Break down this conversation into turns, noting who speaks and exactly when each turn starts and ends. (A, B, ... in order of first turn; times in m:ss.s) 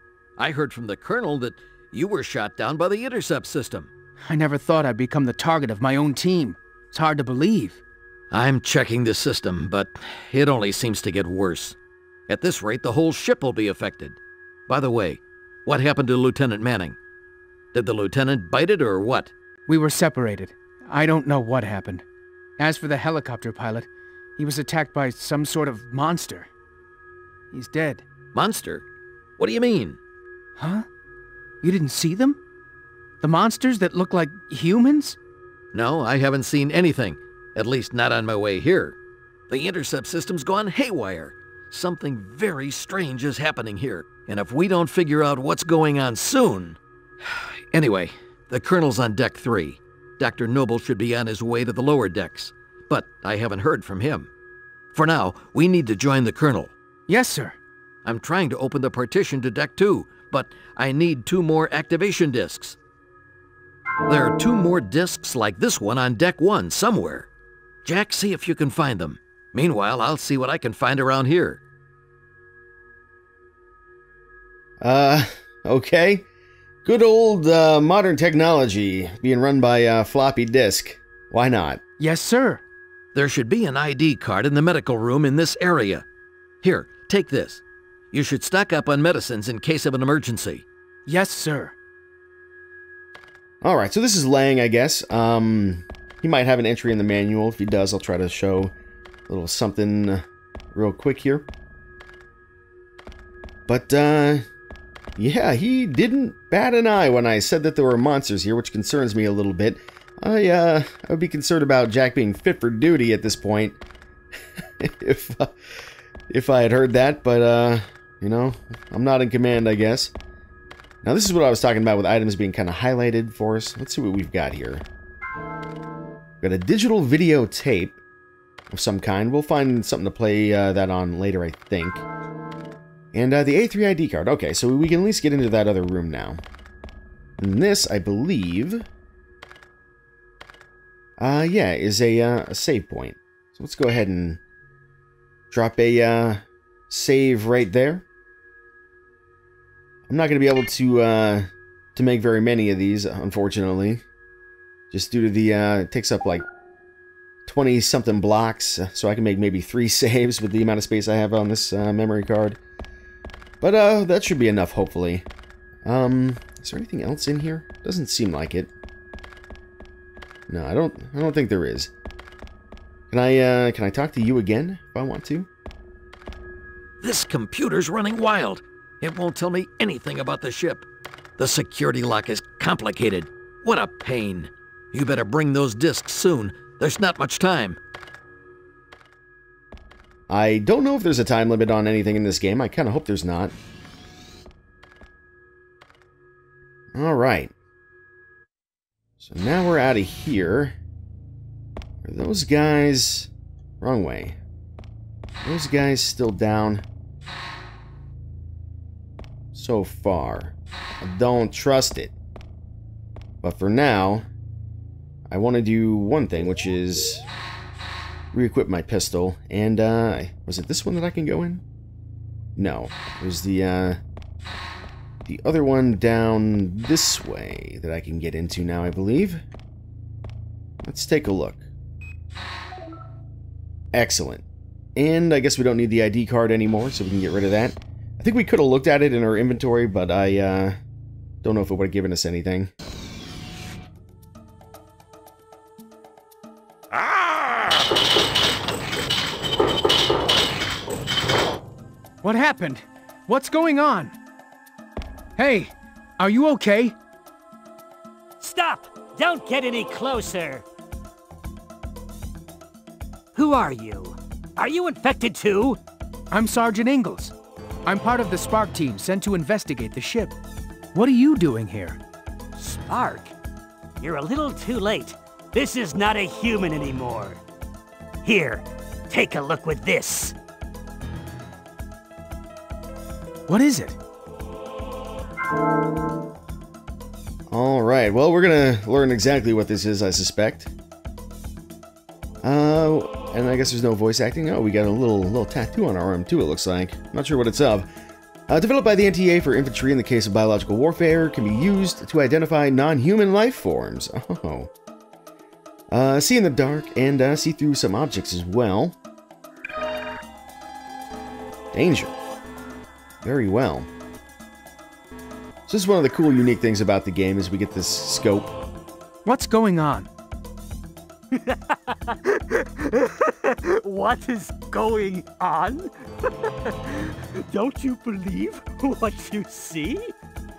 0:00.4-0:03.9 A
0:04.2-0:07.8 B
0:08.3-0:11.8 A
0:12.3-0:17.0 A
0:17.7-0:19.3 A
0:19.7-0:22.0 B
0:22.6-0:26.5 B
0:27.5-0:28.0 B
0:28.3-0:28.8 A
0:29.4-0:30.0 A
0:30.6-0:30.8 B
0:31.6-0:32.4 B
0:33.2-0:35.2 B
0:35.7-0:39.0 A
0:39.5-0:54.3 A
0:54.9-0:56.7 A
0:57.1-0:57.6 B
0:58.0-1:02.8 A
1:04.1-1:07.3 A
1:07.8-1:11.6 A
1:14.8-1:16.2 C
1:16.8-1:21.8 C
1:22.0-1:22.6 B
1:23.1-1:26.0 A
1:26.6-1:30.6 A
1:31.0-1:31.8 B
1:33.6-1:38.7 C
1:39.3-1:41.5 C
1:43.7-1:44.4 C
1:45.2-1:53.8 C
1:54.8-1:55.5 C
1:56.3-2:00.1 C
2:01.0-2:04.8 C
2:06.4-2:08.0 C
2:08.7-2:12.0 C
2:13.1-2:16.4 C
2:17.4-2:18.8 C
2:21.2-2:24.4 C
2:25.5-2:28.0 C
2:30.1-2:34.0 C
2:34.9-2:36.4 C
2:37.5-2:42.6 C
2:43.6-2:45.2 C
2:45.8-2:48.7 C
2:50.5-2:51.9 C
2:53.1-2:55.5 C
2:57.0-3:00.8 A
3:01.4-3:07.8 A
3:10.3-3:13.5 C
3:16.9-3:17.5 C
3:19.2-3:20.8 C
3:22.0-3:23.3 C
3:23.8-3:24.4 C
3:25.4-3:26.8 C
3:29.5-3:32.1 C
3:33.4-3:34.3 C
3:35.3-3:37.2 C
3:38.3-3:41.6 C
3:42.6-3:44.0 C
3:45.2-3:49.4 C
3:50.8-3:51.6 C
3:53.9-3:54.4 C
3:55.0-4:00.8 C
4:01.4-4:02.7 C
4:12.2-4:14.2 B
4:15.4-4:17.0 B
4:18.4-4:20.6 D
4:23.3-4:25.8 D
4:26.3-4:27.3 B
4:27.8-4:30.3 B
4:30.9-4:32.0 B
4:32.5-4:33.3 D
4:34.0-4:37.4 D
4:38.2-4:40.3 D
4:43.5-4:44.0 B
4:47.5-4:50.7 C
4:52.4-4:57.9 C
4:58.5-5:04.7 C
5:05.9-5:09.0 C
5:11.7-5:12.2 C
5:13.2-5:13.9 C
5:15.7-5:18.5 C
5:19.2-5:20.1 B
5:21.3-5:30.1 D